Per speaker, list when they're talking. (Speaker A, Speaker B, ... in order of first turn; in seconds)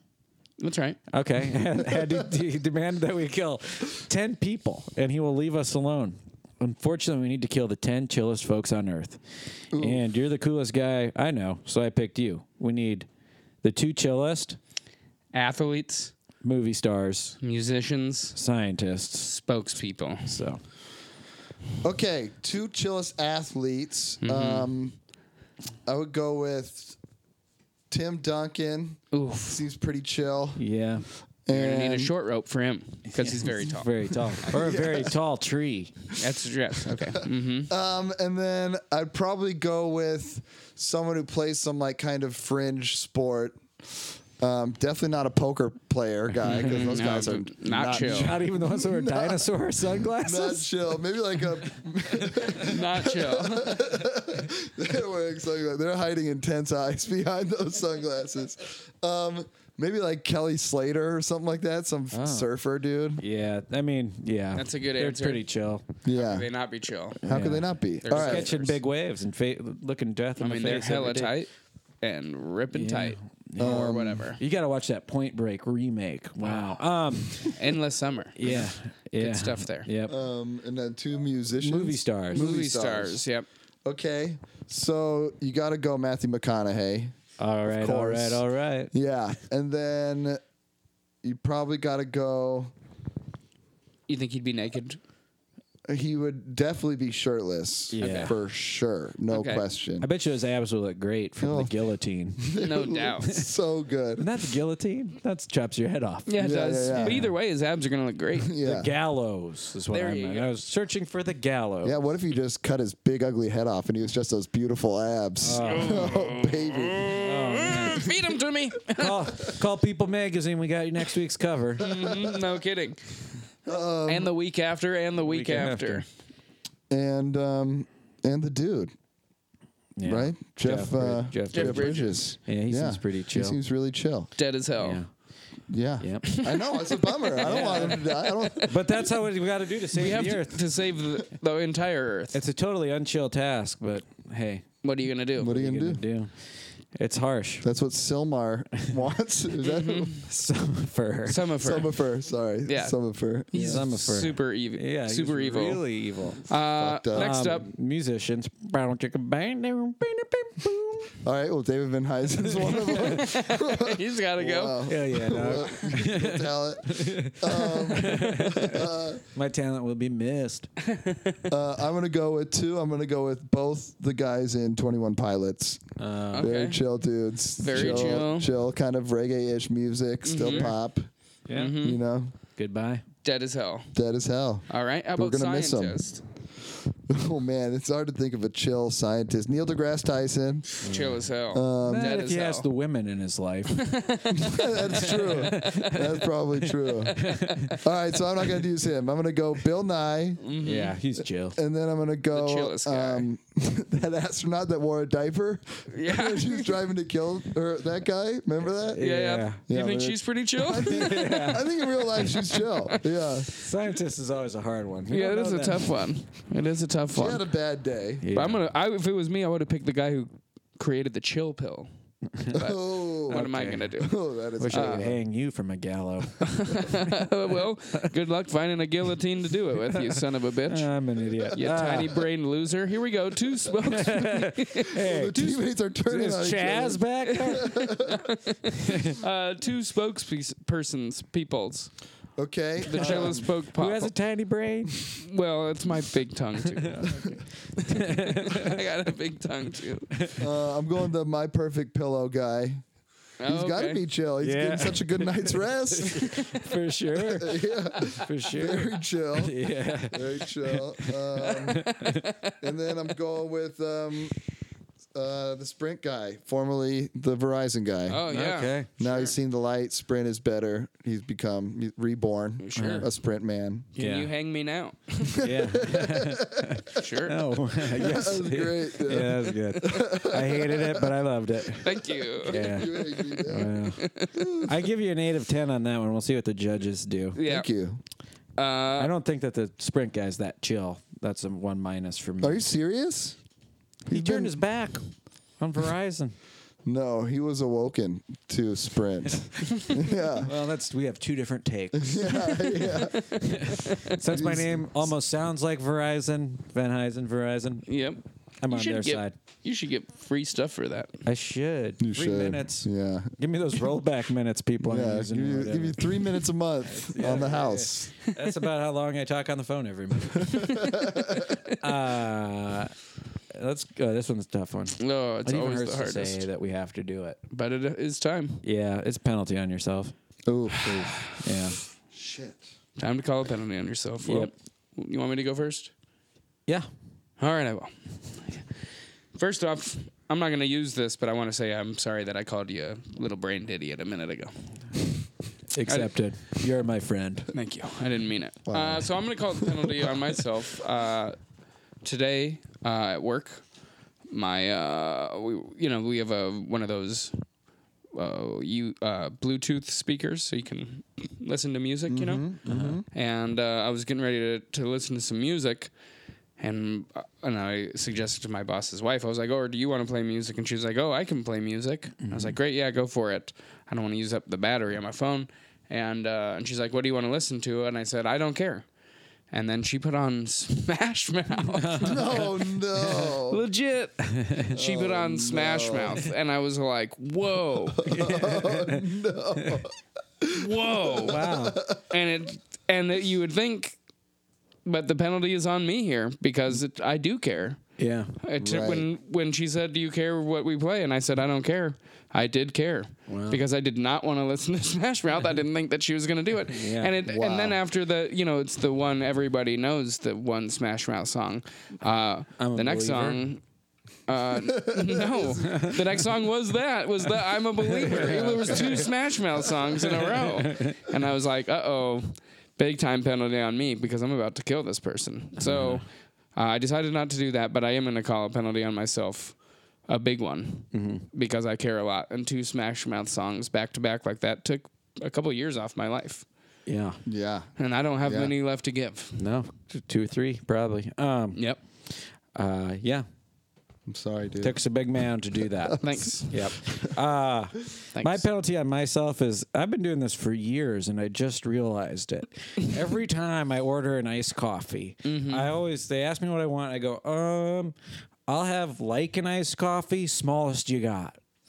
Speaker A: 0.6-1.0, 15.3-16.1, 17.4-18.4, 19.2-20.4, 24.2-24.7, 29.1-29.6, 31.5-33.9, 36.2-37.7, 46.5-48.4, 52.5-53.8, 64.5-65.5, 66.1-67.2, 68.0-68.8, 70.4-71.5, 72.0-74.4, 76.4-76.8, 77.5-79.9, 82.3-83.5, 94.1-95.0, 98.0-98.4, 99.3-99.6, 102.6-103.4, 106.3-108.5, 109.9-110.5, 115.6-119.3, 121.8-123.0, 124.1-126.1, 131.5-132.2, 134.4-135.0, 136.3-138.5, 139.9-142.4, 144.8-145.6, 149.6-150.3, 151.3-151.9, 152.7-153.0, 153.5-155.8, 156.5-157.7, 163.0-164.8, 170.9-171.4, 176.3-176.8, 177.6-178.5, 180.2-180.7, 181.5-182.0, 183.2-183.9, 184.7-186.2, 190.8-192.7, 193.7-196.2, 200.4-200.9, 202.3-203.3, 205.9-206.7, 209.0-212.9, 215.1-217.4, 218.3-221.9, 222.5-224.1, 224.7-225.1, 226.4-230.9, 231.5-234.9, 237.2-241.9, 242.8-244.1, 245.2-250.3, 253.4-254.0, 261.9-262.5, 268.1-269.4, 272.6-273.1, 274.0-275.3, 276.9-277.5, 281.8-283.2, 283.9-284.4, 287.4-287.7, 288.6-289.1, 302.8-304.1, 307.9-311.2, 325.0-326.5, 327.5-328.6, 333.0-335.9, 337.4-338.6, 339.4-345.1, 345.9-346.1, 347.5-351.4, 352.0-353.6, 354.3-357.4, 358.1-362.6, 363.1-365.9, 366.6-378.9, 379.5-382.6, 383.5-388.3, 390.5-394.0, 394.9-413.6, 414.3-429.6, 430.1-436.5, 437.8-439.4, 441.6-441.8, 446.0-446.7, 448.1-448.5, 455.2-455.7
Speaker B: 1.1-9.2, 9.8-13.1, 13.6-14.6, 16.4-17.4, 18.4-19.3, 20.3-20.6, 30.6-31.1, 33.1-36.0, 46.5-47.3, 47.9-50.7, 62.1-62.5, 63.2-65.8, 67.3-71.3, 72.7-77.6, 78.4-80.2, 81.6-82.4, 87.4-88.9, 97.9-98.3, 100.0-102.5, 104.2-106.3, 106.9-107.3, 108.6-112.0, 115.4-116.2, 117.1-118.1, 118.9-121.8, 125.2-126.0, 130.0-133.6, 134.8-135.1, 136.0-136.3, 137.4-138.0, 138.7-140.7, 142.3-144.7, 145.4-147.7, 150.3-151.4, 153.5-156.5, 157.1-161.1, 162.6-163.1, 164.9-170.7, 176.0-176.5, 177.7-178.2, 180.4-180.7, 181.5-181.8, 182.6-183.0, 190.8-191.2, 191.8-194.0, 195.1-196.0, 197.2-197.8, 200.6-201.6, 208.9-209.6, 210.8-211.8, 213.6-215.9, 218.2-218.6, 223.3-223.9, 224.6-227.3, 229.9-232.2, 233.8-237.9, 238.8-239.2, 242.9-245.1, 246.8-247.2, 247.8-248.8, 250.1-250.4, 254.4-262.3, 268.3-268.9, 272.8-273.1, 274.0-274.3, 275.4-284.1, 284.6-287.4, 289.0-292.6, 294.1-295.0, 295.6-296.4, 300.4-302.6, 303.3-308.0, 308.6-309.3, 311.3-322.9, 323.5-327.4, 328.6-330.1, 330.7-331.8, 334.2-334.5, 345.7-347.5, 362.7-363.0, 372.2-372.6, 381.7-383.4, 384.2-384.7, 388.1-389.8, 391.2-391.8, 398.0-398.3, 403.3-403.6, 406.7-407.1, 412.6-413.4, 415.6-416.0, 417.9-419.1, 420.0-420.9, 425.6-426.0, 430.9-431.3, 436.9-437.2, 439.4-443.2, 444.6-446.0, 446.5-457.9, 458.5-461.4
Speaker C: 9.7-10.0, 21.8-25.0, 25.9-27.0, 27.9-30.6, 31.5-32.1, 34.4-35.1, 37.0-49.5, 50.2-63.2, 66.0-66.5, 67.2-68.5, 73.6-74.3, 80.1-83.2, 83.8-90.4, 91.2-92.7, 95.9-100.1, 101.4-101.7, 102.4-104.3, 106.4-107.2, 108.5-108.9, 111.8-117.2, 121.8-122.3, 123.7-124.3, 126.9-128.9, 130.0-134.3, 135.7-139.1, 145.4-146.0, 147.6-150.2, 151.6-154.0, 156.8-157.3, 161.2-169.2, 171.5-175.8, 176.4-181.1, 181.8-182.3, 183.9-186.0, 187.1-190.7, 191.5-192.1, 194.3-197.2, 197.8-200.4, 201.6-209.0, 209.6-213.5, 217.1-218.3, 222.5-223.4, 224.0-225.2, 234.9-238.2, 242.4-243.5, 250.4-252.8, 253.5-256.5, 257.2-259.6, 260.1-261.9, 262.6-264.4, 265.1-268.2, 269.0-273.9, 275.4-276.9, 277.9-281.1, 282.4-284.7, 287.4-288.0, 292.4-293.4, 294.1-294.6, 296.9-300.5, 301.9-303.2, 304.3-305.1, 312.0-313.4, 314.8-318.1, 320.6-321.5, 330.5-331.0, 332.1-332.6, 348.7-349.8, 362.1-363.1, 382.0-383.6, 384.7-386.3, 388.0-392.0, 398.6-399.1, 407.3-407.8, 414.8-415.4, 418.8-419.0, 437.3-437.7, 438.2-438.5, 444.1-444.8, 445.7-446.3